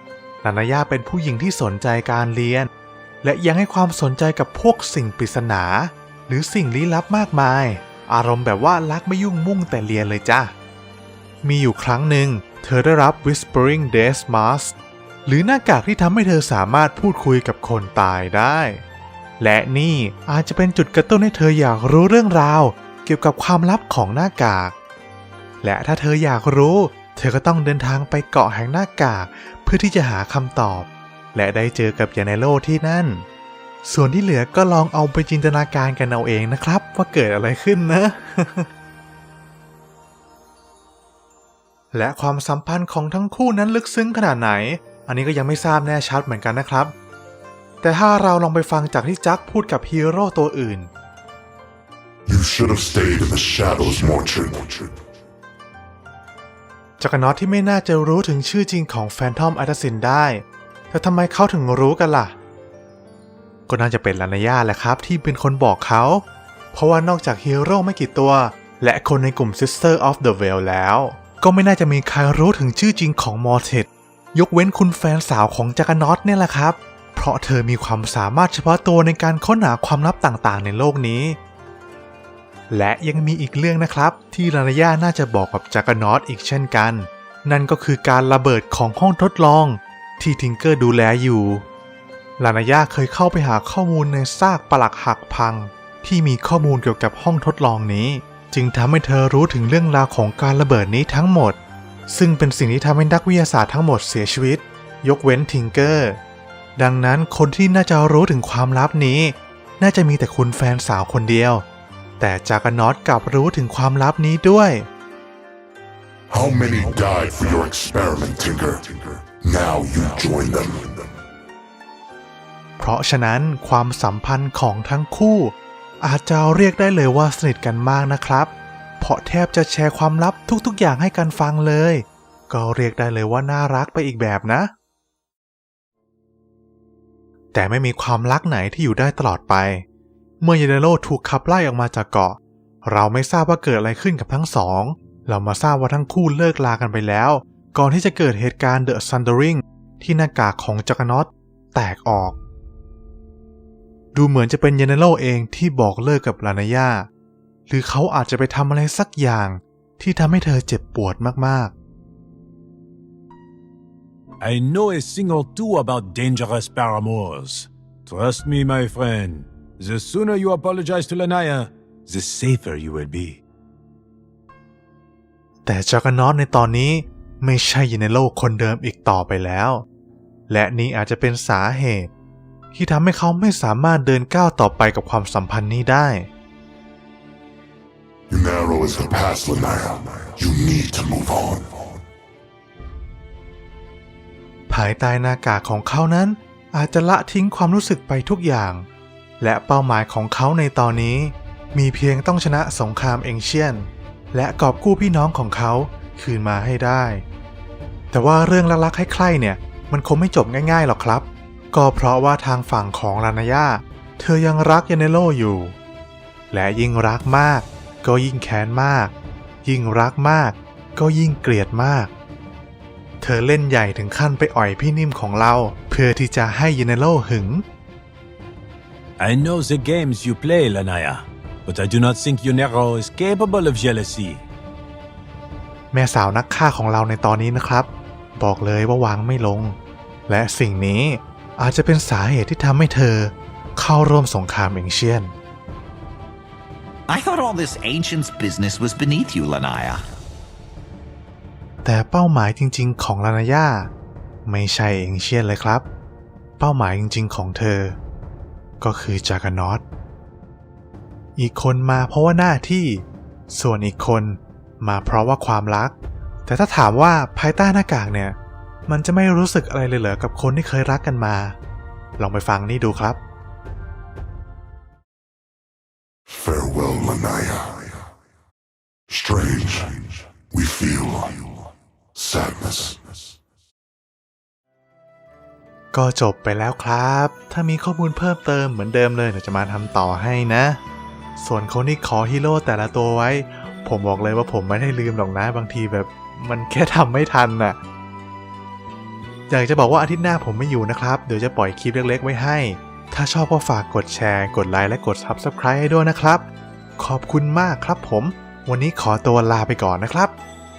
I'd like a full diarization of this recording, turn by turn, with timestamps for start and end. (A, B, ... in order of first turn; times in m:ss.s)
0:00.4-0:02.7 A
0:03.2-0:10.5 A
0:11.4-0:14.8 A
0:15.3-0:18.8 A
0:19.4-0:24.8 A
0:25.6-0:33.2 A
0:33.8-0:38.7 A
0:41.9-0:46.9 A
0:47.8-0:50.9 A
0:52.3-0:55.0 B
0:57.0-1:02.3 A
1:03.7-1:21.4 A
1:22.7-1:31.6 A
1:32.4-1:41.6 A
1:42.1-1:46.2 A
1:46.8-1:51.6 A
1:52.2-1:54.9 A
1:56.3-2:01.1 B
2:02.8-2:14.7 A
2:17.5-2:19.8 A
2:20.4-2:32.4 A
2:34.1-2:37.1 A
2:37.7-2:41.7 A
2:44.4-2:53.4 C
2:55.6-2:59.8 A
3:00.5-3:02.1 A
3:02.7-3:06.3 A
3:08.3-3:12.0 B
3:14.7-3:18.8 A
3:19.4-3:27.2 A
3:28.1-3:35.8 A
3:36.5-3:39.1 A
3:39.6-3:42.1 A
3:43.2-3:47.6 A
3:49.2-3:54.4 C
3:55.9-3:59.8 A
4:00.3-4:05.3 A
4:07.1-4:10.0 D
4:11.8-4:13.9 A
4:14.4-4:15.8 A
4:16.6-4:18.0 A
4:18.8-4:19.8 A
4:21.4-4:26.0 A
4:26.5-4:28.4 A
4:28.9-4:31.6 A
4:32.2-4:33.2 A
4:36.3-4:38.0 B
4:39.1-4:43.2 B
4:45.9-4:50.8 A
4:51.4-4:57.8 A
4:59.5-5:06.4 A
5:07.0-5:10.3 A